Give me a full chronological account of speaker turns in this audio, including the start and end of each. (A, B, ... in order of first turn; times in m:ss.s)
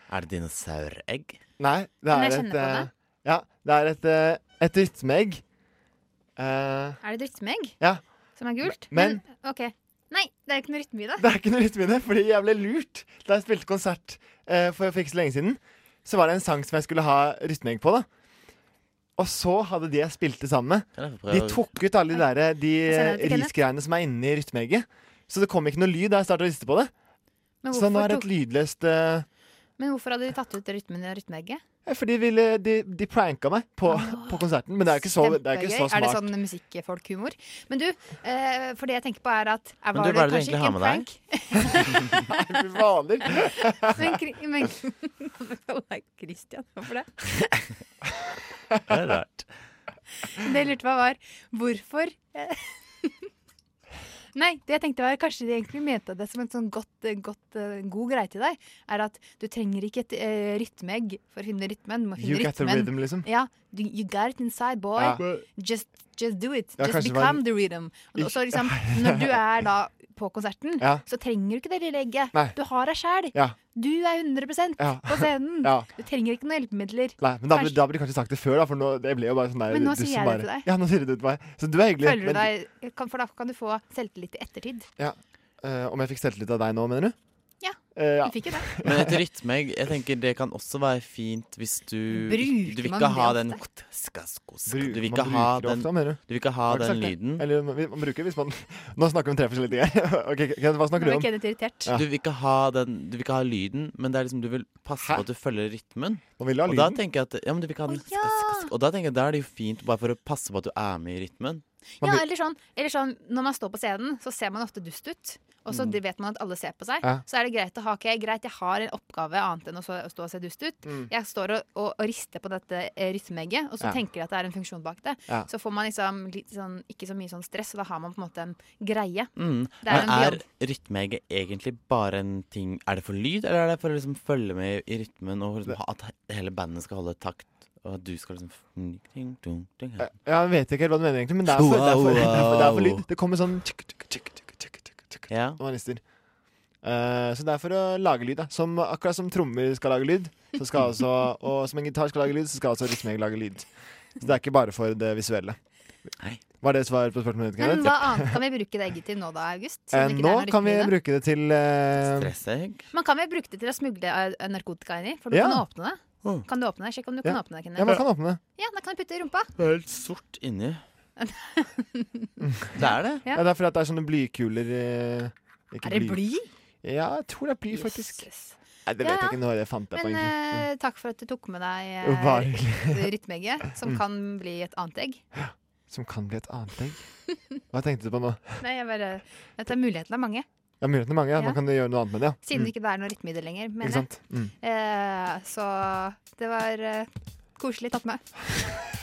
0:00.1-0:01.4 A
0:01.6-0:05.4 B
0:02.1-0:02.9 C
0:06.4-0:07.0 B
0:07.0-0:07.8 C
0:08.4-0:11.3 C
0:08.6-0:09.2 B
0:11.2-0:18.1 B
0:19.2-0:26.9 B
0:21.0-0:21.7 A
0:22.8-0:23.5 C
0:27.6-0:28.3 C
0:27.7-0:29.2 B
0:29.8-0:31.6 C
0:31.9-0:36.3 B
0:33.9-0:42.0 C
0:39.9-0:41.1 A
0:42.3-0:44.1 B
0:43.9-0:47.1 C
0:48.9-0:49.5 A
0:50.4-0:53.1 C
0:54.4-1:17.9 C
1:02.2-1:03.3 B
1:05.0-1:05.4 B
1:06.8-1:07.5 B
1:08.2-1:09.4 B
1:14.8-1:15.9 B
1:17.2-1:22.5 B
1:19.7-1:20.7 C
1:22.0-1:24.9 C
1:25.0-1:27.2 B
1:27.6-1:28.7 C
1:27.9-1:29.2 B
1:28.8-1:37.4 A
1:32.1-1:33.6 C
1:34.7-1:41.3 B
1:41.0-1:41.9 C
1:41.9-1:51.6 A
1:45.0-1:45.2 B
1:46.4-1:47.0 B
1:47.9-1:48.7 C
1:52.0-2:09.3 C
2:09.4-2:20.1 A
2:09.8-2:10.4 C
2:20.0-2:26.0 B
2:21.5-2:23.0 A
2:25.3-2:25.6 A
2:26.8-2:33.7 B
2:34.2-2:35.6 B
2:36.2-2:36.4 A
2:36.6-2:38.3 B
2:37.6-2:41.0 C
2:39.9-2:42.4 B
2:42.0-2:42.9 A
2:42.9-2:49.5 C
2:45.3-2:45.7 B
2:47.2-2:48.4 B
2:49.6-2:50.8 A
2:51.2-2:52.3 C
2:52.4-2:52.7 B
2:52.8-2:53.3 A
2:52.8-2:53.4 C
2:53.3-2:56.2 B
2:55.8-2:56.5 C
2:56.8-2:58.3 B
2:57.7-2:59.4 C
2:58.9-3:00.6 B
2:59.9-3:05.2 C
3:02.0-3:03.1 B
3:05.4-3:07.1 B
3:07.7-3:08.6 B
3:08.6-3:10.5 C
3:10.8-3:12.7 B
3:12.4-3:18.2 C
3:13.8-3:14.5 B